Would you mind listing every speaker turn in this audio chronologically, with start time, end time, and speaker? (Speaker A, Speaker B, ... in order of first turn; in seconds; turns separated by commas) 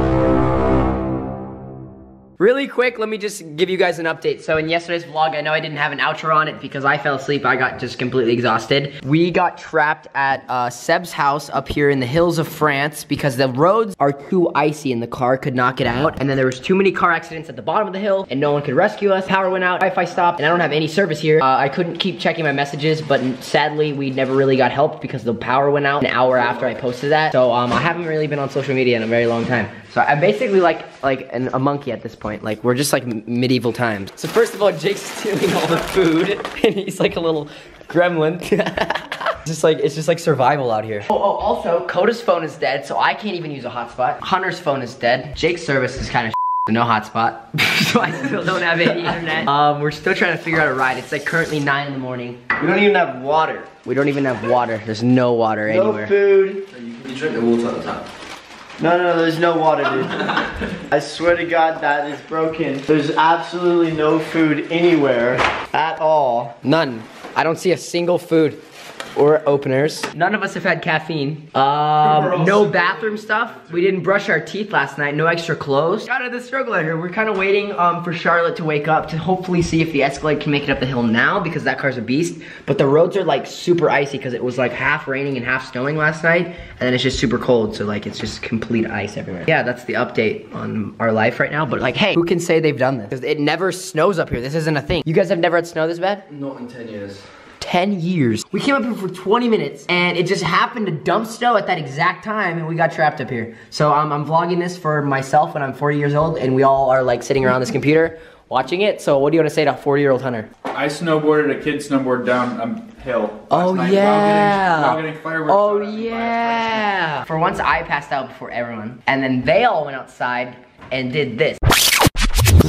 Speaker A: 2.4-52.5, Speaker B: 52.8-53.6, Speaker A: 53.7-56.1, Speaker B: 55.7-57.7, Speaker C: 56.7-58.0, Speaker B: 58.8-60.3, Speaker B: 60.9-66.5, Speaker A: 66.6-68.6, Speaker A: 69.1-96.3, Speaker C: 96.3-97.2, Speaker A: 97.6-110.5, Speaker D: 110.7-116.8, Speaker A: 113.5-121.6